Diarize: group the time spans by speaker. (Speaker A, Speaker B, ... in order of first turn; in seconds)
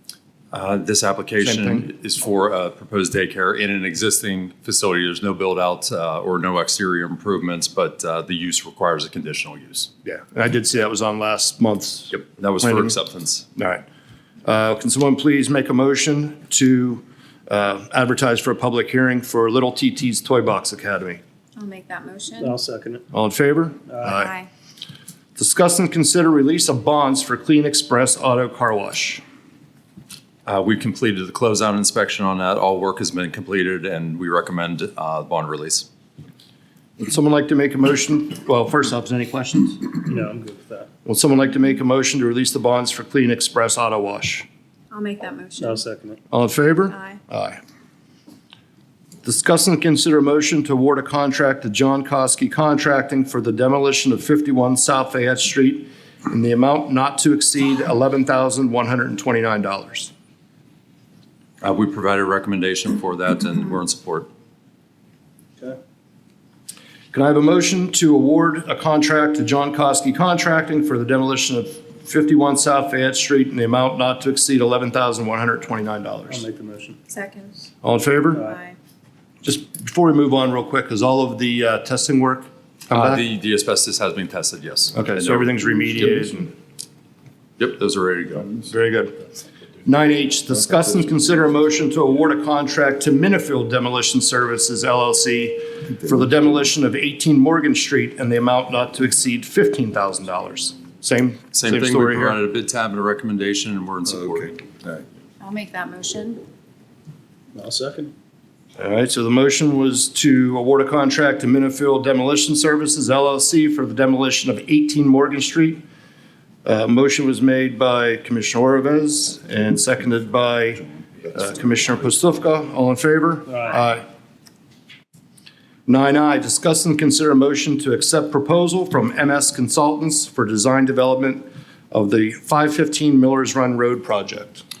Speaker A: 0.5-9.9, 12.1-13.4, 30.4-35.9, 61.6-64.3, 82.9-85.5, 87.6-88.6, 101.5-104.6
Speaker B: 1.4-1.9, 10.0-13.0, 13.6-13.8, 14.4-21.2, 23.1-24.3, 25.4-29.2, 37.0-40.0, 41.0-44.5, 46.3-47.6, 49.2-60.1, 67.1-76.4, 77.8-78.4, 79.4-83.2, 84.9-86.5, 88.7-89.2, 89.8-102.4, 108.8-115.8, 116.6-124.0, 125.8-134.6
Speaker C: 21.6-22.6, 24.1-24.5, 44.9-45.9, 46.9-47.2, 77.1-77.6, 78.4-78.8, 105.4-106.4
Speaker D: 22.4-23.0, 40.0-40.9, 45.6-46.2, 76.3-77.0, 107.5-108.1, 123.5-123.8